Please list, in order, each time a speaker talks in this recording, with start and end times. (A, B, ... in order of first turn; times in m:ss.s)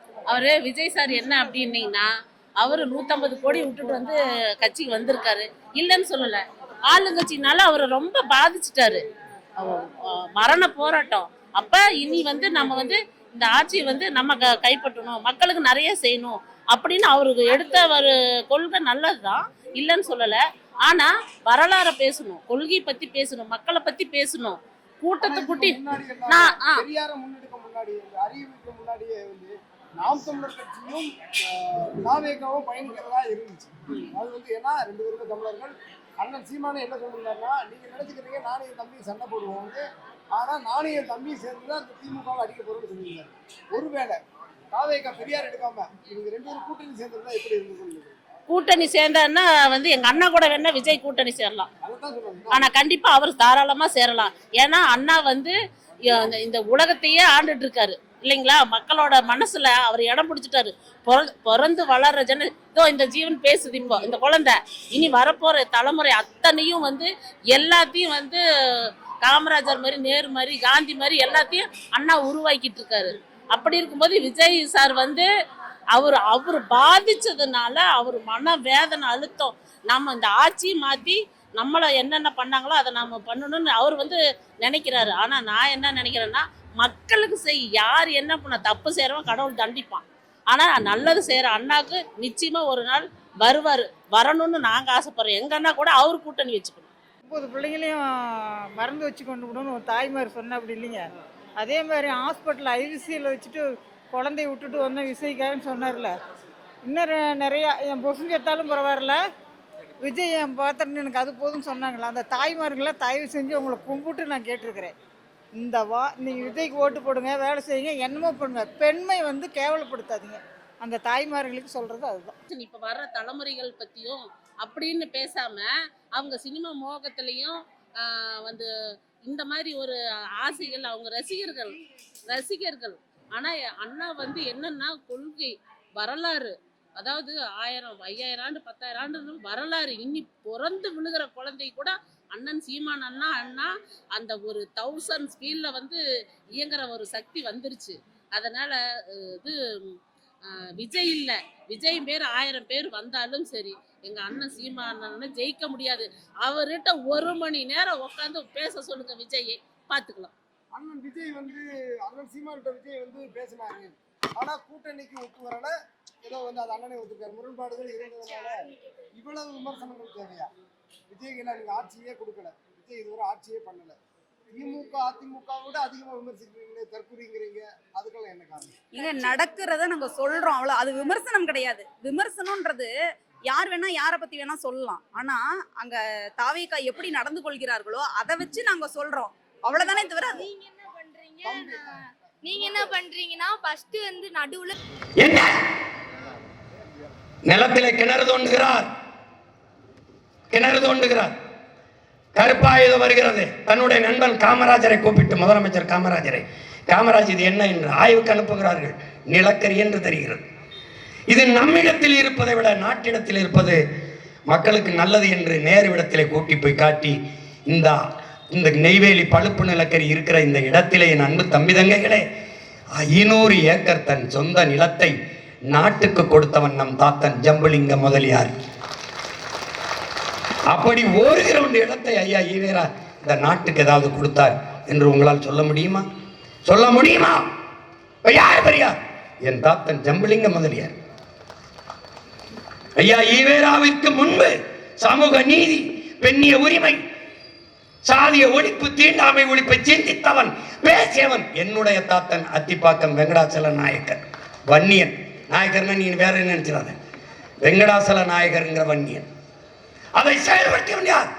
0:00.3-0:02.1 A
0:02.6-0:09.0 A
0:09.6-0:26.9 A
0:25.2-0:44.2 B
0:44.7-0:48.2 B
0:48.5-0:51.7 A
0:51.8-0:52.7 B
0:52.5-1:15.3 A
1:15.9-1:36.9 A
1:37.3-1:41.1 C
1:41.6-1:46.2 C
1:46.8-1:49.2 C
1:50.0-1:55.0 C
1:55.6-2:02.4 C
2:02.5-2:08.7 A
2:09.2-2:11.8 A
2:12.3-2:26.0 A
2:26.6-2:40.3 A
2:40.7-2:45.7 B
2:46.2-2:48.6 B
2:49.2-2:50.5 B
2:51.1-2:54.0 B
2:54.6-2:58.7 B
2:58.9-3:02.9 D
3:03.5-3:10.5 D
3:09.8-3:14.7 E
3:11.4-3:11.9 B
3:15.2-3:15.5 F
3:17.5-3:18.9 F
3:20.5-3:21.3 F
3:22.4-3:30.4 F
3:31.3-3:33.8 F
3:34.5-3:38.0 F
3:38.5-3:42.2 F
3:43.0-3:45.2 F
3:45.7-3:48.5 F
3:50.7-3:56.0 F
3:56.7-3:57.5 F
3:58.2-4:01.0 F
4:03.0-4:07.0 F
4:08.0-4:17.0 F
4:17.6-4:19.3 F
4:20.2-4:21.3 F